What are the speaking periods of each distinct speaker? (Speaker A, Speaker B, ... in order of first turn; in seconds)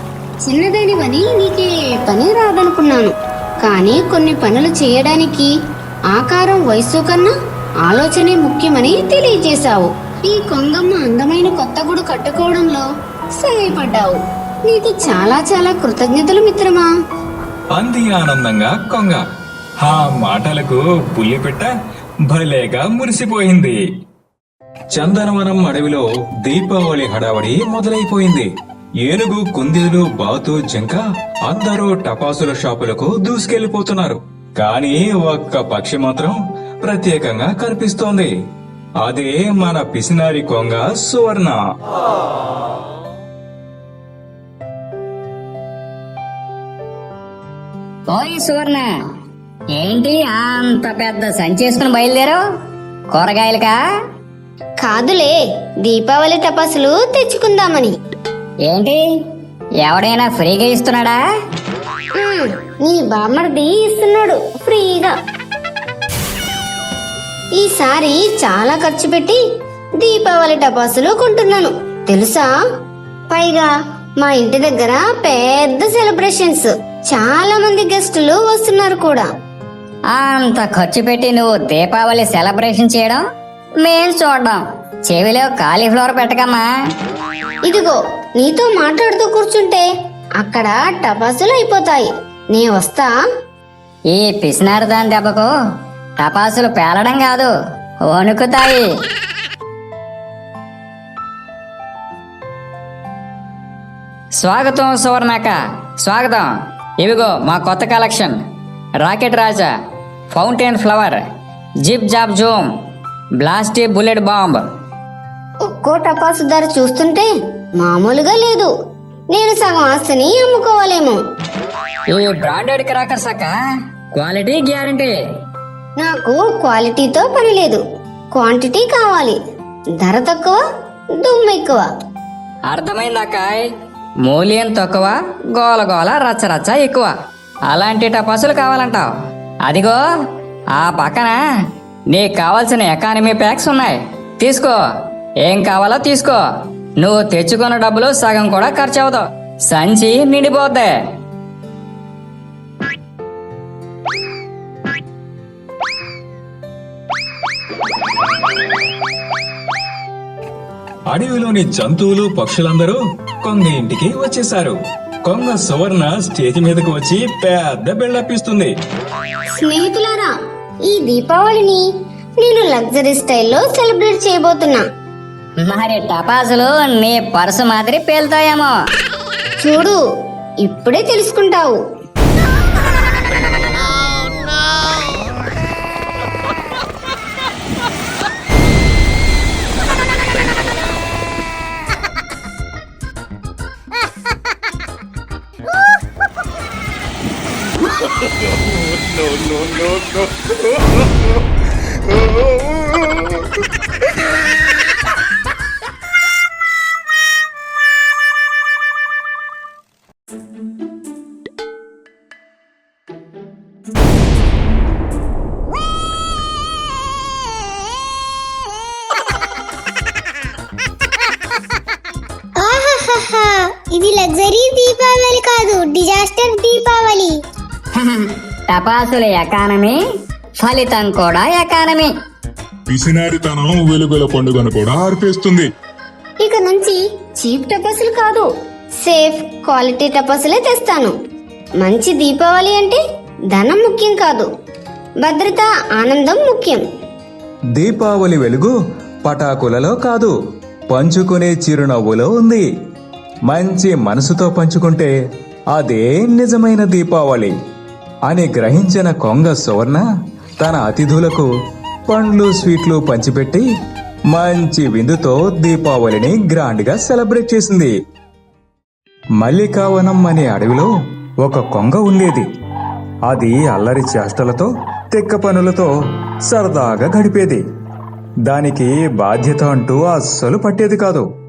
Speaker A: 0.4-5.5, 6.1-7.3, 7.8-12.9, 13.4-16.9, 54.8-57.9, 62.2-65.1, 67.5-69.4, 70.0-72.5, 73.3-79.3, 87.6-89.8, 90.4-93.1, 115.6-117.3, 117.8-118.7, 119.3-121.2, 126.0-127.8, 128.3-129.4, 130.0-130.6, 131.2-131.8, 169.5-170.3, 170.9-171.8, 172.4-174.8, 179.6-180.0, 180.6-181.8, 222.6-227.4, 236.4-238.5, 239.0-241.1, 241.8-243.0, 243.5-244.5, 245.2-246.8
Speaker B: 17.7-19.2, 19.8-21.7, 22.3-23.8, 24.9-28.5, 29.0-38.3, 39.0-41.6, 161.1-168.7, 247.8-250.3, 250.9-252.7, 253.5-255.1, 255.7-257.5, 258.3-260.0, 260.6-261.5, 262.1-263.6, 264.3-267.9, 269.4-270.9, 271.4-272.5, 273.3-275.9, 276.5-277.6, 278.5-281.2
Speaker C: 48.1-48.9, 49.8-52.4, 53.1-53.8, 58.7-59.1, 59.8-61.2, 80.1-83.2, 83.8-86.7, 94.1-95.5, 96.2-97.5, 98.1-98.9, 104.4-106.5, 107.0-108.4, 109.0-109.7, 110.3-111.2, 111.8-112.7, 113.4-114.6, 122.1-123.5, 124.2-125.1, 132.7-133.7, 134.3-137.1, 137.7-139.1, 139.7-140.0, 140.8-141.4, 142.1-144.8, 145.4-146.4, 147.0-150.9, 175.6-178.7, 227.9-230.0, 230.6-232.1
Speaker D: 232.9-235.7